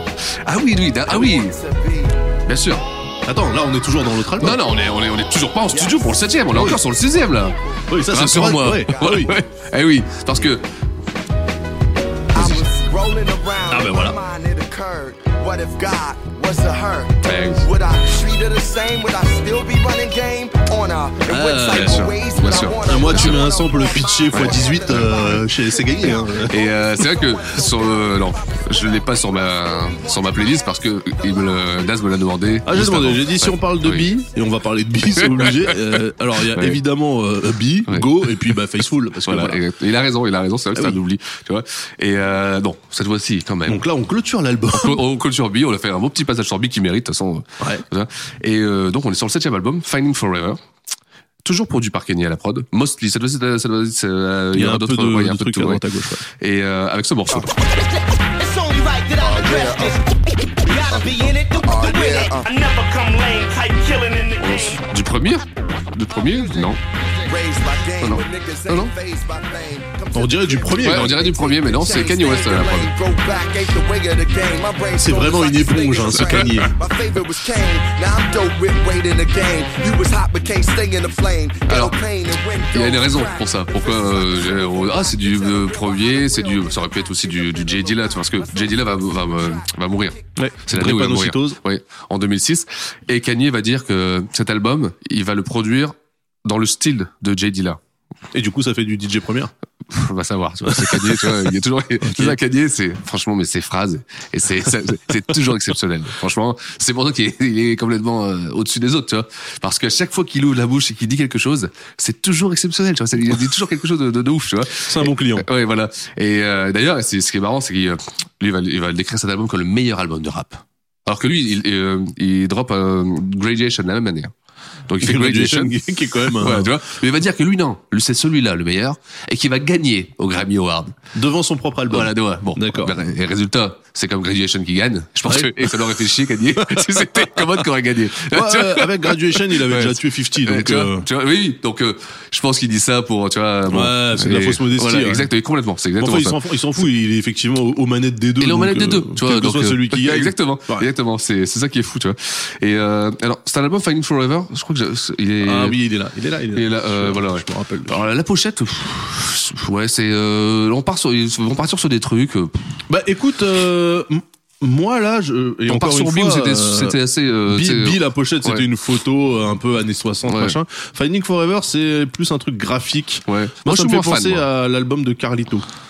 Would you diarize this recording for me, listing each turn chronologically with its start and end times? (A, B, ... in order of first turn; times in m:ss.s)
0:00.2-0:01.6 A
0:01.1-0:02.2 B
0:02.5-0:02.8 A
0:03.3-0:04.6 C
0:04.4-0:07.6 A
0:05.7-0:06.7 B
0:06.5-0:06.8 C
0:07.2-0:07.8 B
0:07.9-0:09.3 C
0:08.1-0:10.7 A
0:08.8-0:09.4 B
0:12.3-0:32.2 B
0:12.4-0:12.6 C
0:13.7-0:14.2 C
0:17.2-0:17.6 A
0:21.3-0:22.1 C
0:21.7-0:23.4 A
0:22.8-0:26.6 C
0:24.3-0:24.6 A
0:26.4-0:34.1 A
0:32.6-0:39.6 C
0:35.2-0:36.8 A
0:37.9-0:38.3 A
0:39.2-0:43.8 A
0:43.7-0:45.0 C
0:44.7-0:50.6 A
0:51.4-0:57.5 A
0:54.5-0:56.2 C
0:58.8-0:59.9 D
0:59.2-1:00.2 B
1:00.7-1:02.7 B
1:00.8-1:04.7 D
1:04.4-1:06.8 A
1:06.8-1:29.7 B
1:08.0-1:08.9 A
1:10.1-1:11.3 C
1:10.8-1:12.9 A
1:15.0-1:16.7 C
1:21.7-1:22.0 A
1:22.7-1:37.8 A
1:30.4-1:31.6 C
1:38.3-1:39.5 C
1:39.9-2:04.3 A
1:40.7-1:42.4 C
1:54.8-1:55.5 C
2:04.9-2:11.0 A
2:05.0-2:06.8 C
2:11.1-2:13.0 C
2:11.9-2:26.4 A
2:15.2-2:16.0 C
2:16.6-2:17.7 C
2:18.3-2:21.1 C
2:23.7-2:25.3 C
2:26.0-2:30.9 C
2:28.4-2:35.8 A
2:35.4-2:38.0 C
2:36.6-2:42.6 A
2:42.9-2:47.0 C
2:45.7-2:48.7 A
2:47.5-2:55.7 C
2:50.3-2:50.6 A
2:53.3-2:54.5 A